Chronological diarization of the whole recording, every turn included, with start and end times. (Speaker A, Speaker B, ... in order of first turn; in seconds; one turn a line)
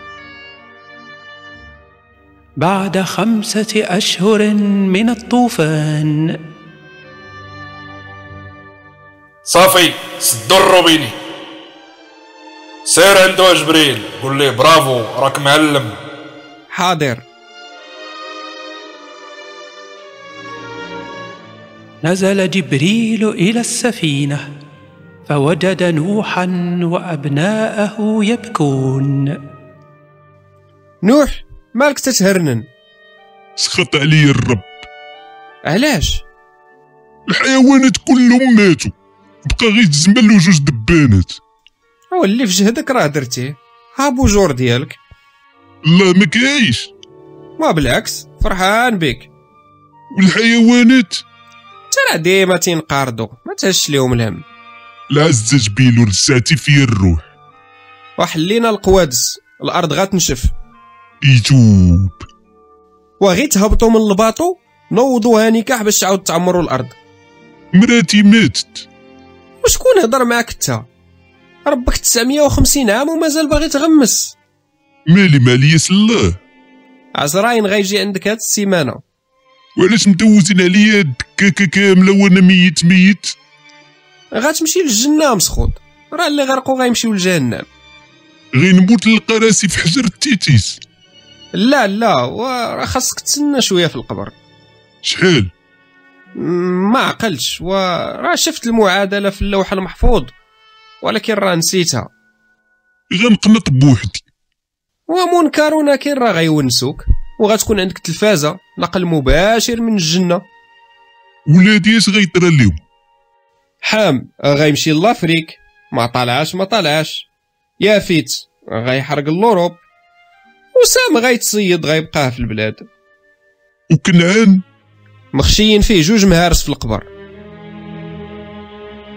Speaker A: 2.6-6.4
Speaker B: 9.4-11.2
Speaker B: 12.9-15.9
Speaker C: 16.7-17.2
Speaker A: 22.0-24.5
Speaker A: 25.3-29.4
Speaker C: 31.0-32.7
Speaker D: 33.6-34.8
Speaker C: 35.7-36.2
Speaker D: 37.3-38.9
Speaker D: 39.5-41.4
Speaker C: 42.1-45.0
Speaker D: 45.9-46.9
Speaker C: 47.6-49.3
Speaker D: 50.1-51.2
Speaker C: 51.9-54.4
Speaker D: 55.1-57.2
Speaker C: 58.2-60.5
Speaker D: 61.2-62.2
Speaker C: 63.2-67.0
Speaker D: 67.7-68.9
Speaker C: 69.6-70.9
Speaker C: 71.7-74.3
Speaker D: 75.1-76.4
Speaker C: 77.2-79.0
Speaker D: 79.8-83.3
Speaker C: 84.3-87.7
Speaker D: 88.6-90.8
Speaker C: 91.6-94.3
Speaker D: 95.0-95.5
Speaker C: 96.4-100.3
Speaker C: 101.0-102.1
Speaker D: 103.1-104.2
Speaker C: 105.1-110.4
Speaker D: 111.5-112.8
Speaker C: 113.8-117.3
Speaker C: 117.8-119.8
Speaker C: 120.8-122.9
Speaker D: 123.9-124.6
Speaker C: 125.3-127.1